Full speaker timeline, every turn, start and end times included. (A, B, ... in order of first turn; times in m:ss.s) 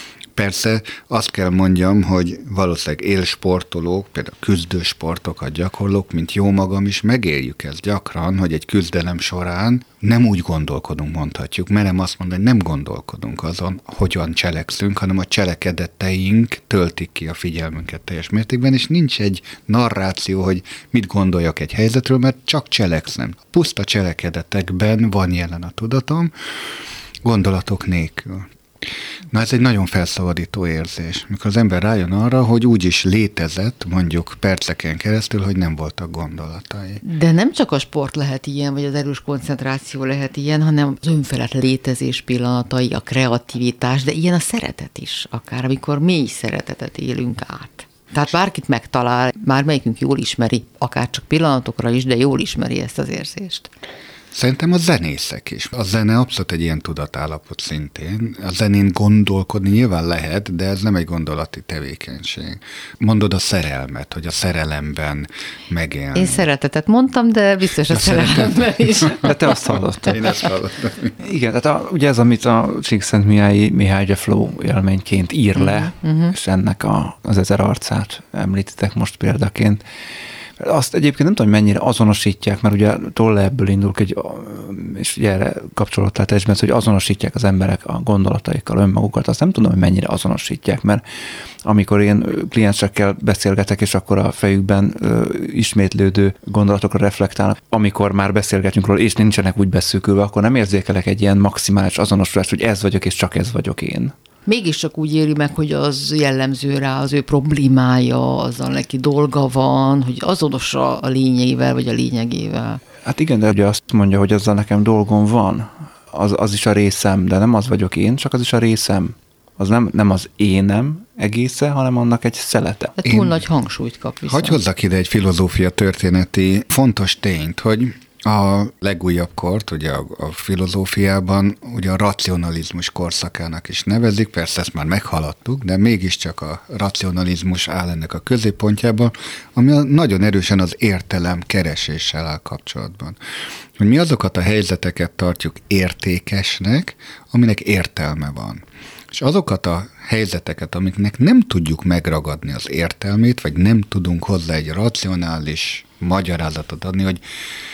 0:00.4-0:26.3 A
0:27.2-0:37.0 A
0:37.0-0:53.7 B
0:54.3-1:06.4 A
1:06.2-1:09.3 B
1:07.9-1:09.3 A
1:09.2-1:10.5 C
1:10.1-1:11.2 A
1:11.2-1:19.8 C
1:15.6-1:16.3 B
1:20.6-1:31.0 C
1:31.6-1:44.1 C
1:44.5-1:52.8 B
1:53.0-2:03.0 C
2:03.0-2:04.6 B
2:03.1-2:03.3 A
2:04.3-2:23.2 A
2:23.8-2:37.2 A